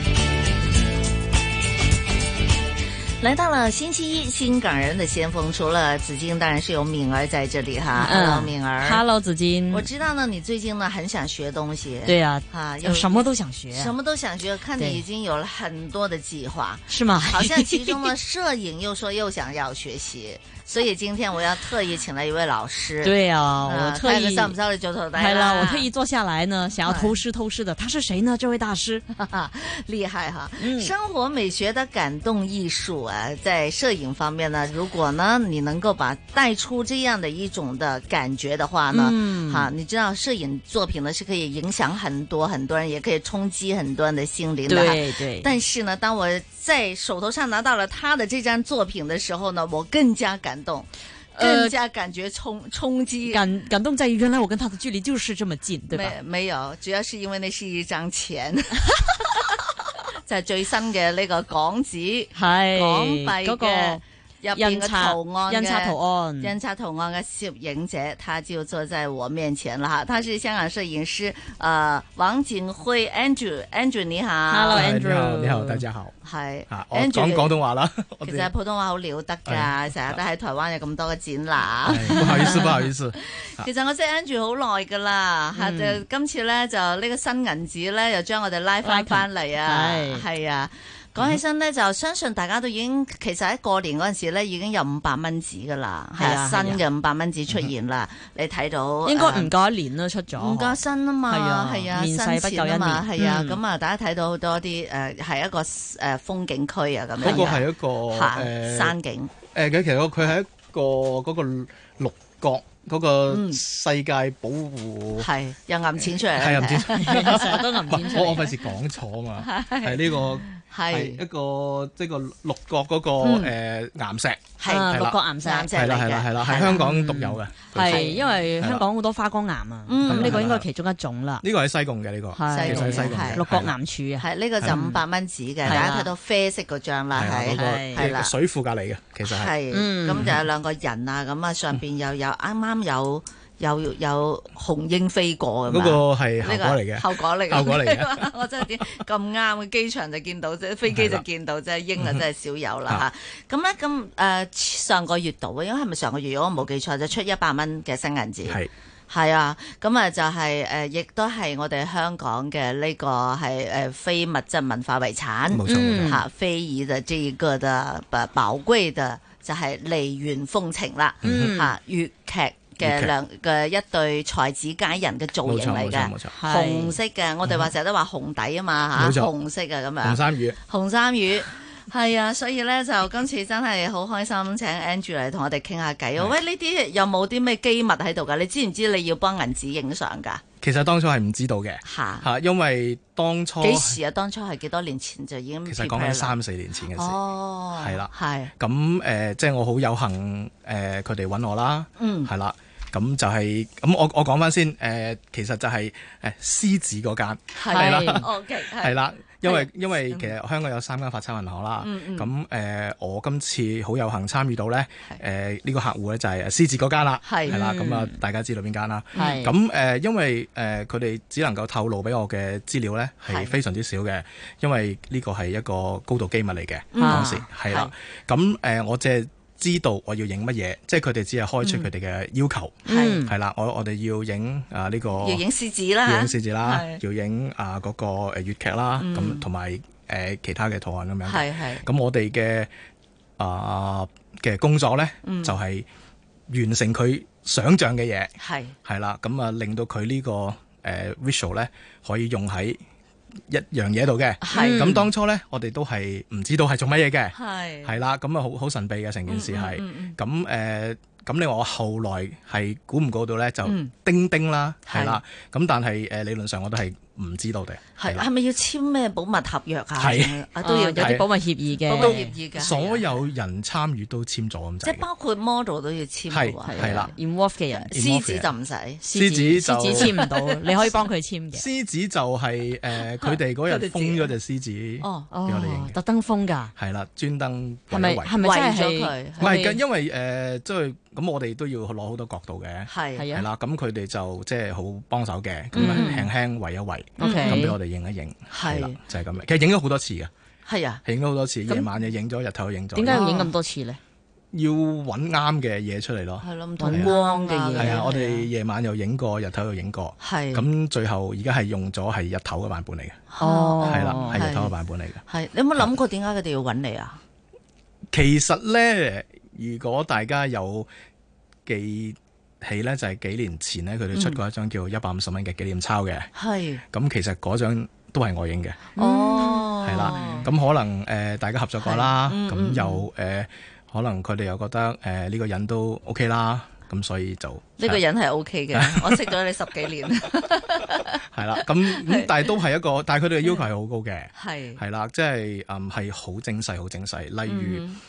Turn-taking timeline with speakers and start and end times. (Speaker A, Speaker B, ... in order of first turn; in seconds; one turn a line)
Speaker A: 3.2-9.0
Speaker B: 8.0-9.9
Speaker A: 9.7-25.9
Speaker B: 12.1-13.9
Speaker B: 14.8-15.0
Speaker B: 16.9-18.0
Speaker B: 23.0-24.5
Speaker B: 25.1-29.0
Speaker A: 26.8-27.1
Speaker A: 29.1-53.4
Speaker B: 30.6-30.9
Speaker B: 38.9-39.7
Speaker B: 44.7-45.5
Speaker B: 51.4-51.7
Speaker B: 53.3-56.1
Speaker A: 55.9-74.9
Speaker B: 62.4-64.0
Speaker B: 64.5-66.5
Speaker B: 74.5-75.8
Speaker C: 74.7-76.2
Speaker A: 76.2-77.5
Speaker C: 76.7-78.5
Speaker A: 78.2-99.5
Speaker C: 79.5-80.2
Speaker C: 81.9-83.7
Speaker B: 82.1-82.7
Speaker B: 85.5-86.0
Speaker B: 88.8-90.2
Speaker B: 96.2-96.8
Speaker B: 99.0-103.6
Speaker A: 100.3-109.3
Speaker C: 107.2-109.0
Speaker B: 107.2-107.5
Speaker C: 109.5-115.3
Speaker A: 113.3-113.6
Speaker A: 115.2-118.3
Speaker C: 116.3-125.2
Speaker B: 117.0-118.6
Speaker A: 119.4-121.2
Speaker A: 123.2-123.5
Speaker A: 124.6-126.9
Speaker B: 124.7-125.7
Speaker C: 125.7-128.9
Speaker B: 126.6-131.4
Speaker A: 127.8-128.3
Speaker A: 129.9-130.4
Speaker C: 130.1-130.7
Speaker C: 131.4-133.8
Speaker B: 132.3-135.0
Speaker A: 132.5-133.5
Speaker A: 134.2-138.3
Speaker C: 135.6-135.9
Speaker B: 135.7-136.1
Speaker C: 137.1-139.6
Speaker B: 137.5-138.1
Speaker A: 139.2-190.4
Speaker B: 139.7-140.4
Speaker C: 145.7-149.0
Speaker C: 150.9-151.2
Speaker C: 152.0-152.2
Speaker C: 158.5-158.7
Speaker C: 165.5-166.2
Speaker B: 165.7-166.2
Speaker C: 171.2-171.6
Speaker B: 171.2-171.8
Speaker C: 172.8-173.1
Speaker C: 175.4-176.3
Speaker B: 176.3-176.9
Speaker C: 178.9-179.3
Speaker C: 180.0-180.6
Speaker C: 190.6-194.0
Speaker A: 191.8-192.3
Speaker A: 193.6-196.3
Speaker C: 195.7-197.2
Speaker A: 196.9-198.5
Speaker C: 197.7-235.4
Speaker A: 202.0-202.3
Speaker A: 207.6-209.7
Speaker B: 207.7-208.3
Speaker A: 211.8-212.3
Speaker A: 217.2-217.6
Speaker B: 217.5-218.2
Speaker A: 219.2-219.4
Speaker B: 219.2-219.6
Speaker A: 223.3-223.6
Speaker A: 226.9-227.9
Speaker B: 227.0-227.4
Speaker A: 231.6-231.9
Speaker B: 232.9-233.3
Speaker A: 232.9-233.2
Speaker A: 235.2-237.0
Speaker C: 236.0-242.7
Speaker A: 239.0-239.4
Speaker A: 241.2-241.9
Speaker C: 243.4-245.9
Speaker A: 245.2-245.6
Speaker C: 246.5-248.3
Speaker A: 248.4-248.8
Speaker C: 248.8-252.8
Speaker C: 253.5-268.3
Speaker A: 254.4-255.1
Speaker B: 254.5-255.1
Speaker A: 257.3-258.0
Speaker A: 259.3-260.2
Speaker A: 263.6-263.9
Speaker A: 264.9-265.2
Speaker A: 268.0-271.1
Speaker C: 270.0-270.4
Speaker B: 270.6-272.3
Speaker C: 270.9-271.3
Speaker A: 271.7-273.1
Speaker C: 272.0-275.1
Speaker A: 274.8-277.1
Speaker C: 276.3-277.1
Speaker B: 276.7-277.9
Speaker A: 277.8-279.0
Speaker C: 277.9-278.5
Speaker B: 279.0-281.7
Speaker C: 279.1-280.1
Speaker A: 279.9-280.9
Speaker C: 281.5-286.0
Speaker A: 283.2-284.3
Speaker A: 285.0-285.3
Speaker B: 285.3-286.7
Speaker C: 286.8-288.3
Speaker B: 287.9-289.8
Speaker A: 288.4-289.6
Speaker C: 289.4-300.3
Speaker A: 292.9-293.3
Speaker B: 293.2-293.5
Speaker B: 295.7-296.3
Speaker A: 295.8-296.2
Speaker B: 297.2-297.8
Speaker A: 297.2-297.6
Speaker A: 298.5-299.0
Speaker A: 300.6-301.0
Speaker C: 301.1-303.3
Speaker B: 302.9-304.0
Speaker A: 303.1-303.5
Speaker C: 304.5-307.1
Speaker A: 306.4-308.5
Speaker B: 306.8-308.1
Speaker C: 307.8-313.2
Speaker A: 310.2-310.6
Speaker A: 313.3-314.7
Speaker B: 313.4-314.4
Speaker C: 313.8-315.2
Speaker A: 315.3-317.2
Speaker C: 318.1-320.9
Speaker C: 321.7-326.3
Speaker A: 324.1-324.4
Speaker A: 326.4-326.8
Speaker C: 326.9-328.9
Speaker A: 329.0-330.5
Speaker B: 329.0-330.5
Speaker C: 329.8-338.0
Speaker A: 331.8-333.1
Speaker A: 337.8-342.6
Speaker C: 338.7-339.4
Speaker C: 341.3-347.9
Speaker A: 344.4-344.8
Speaker A: 347.4-348.0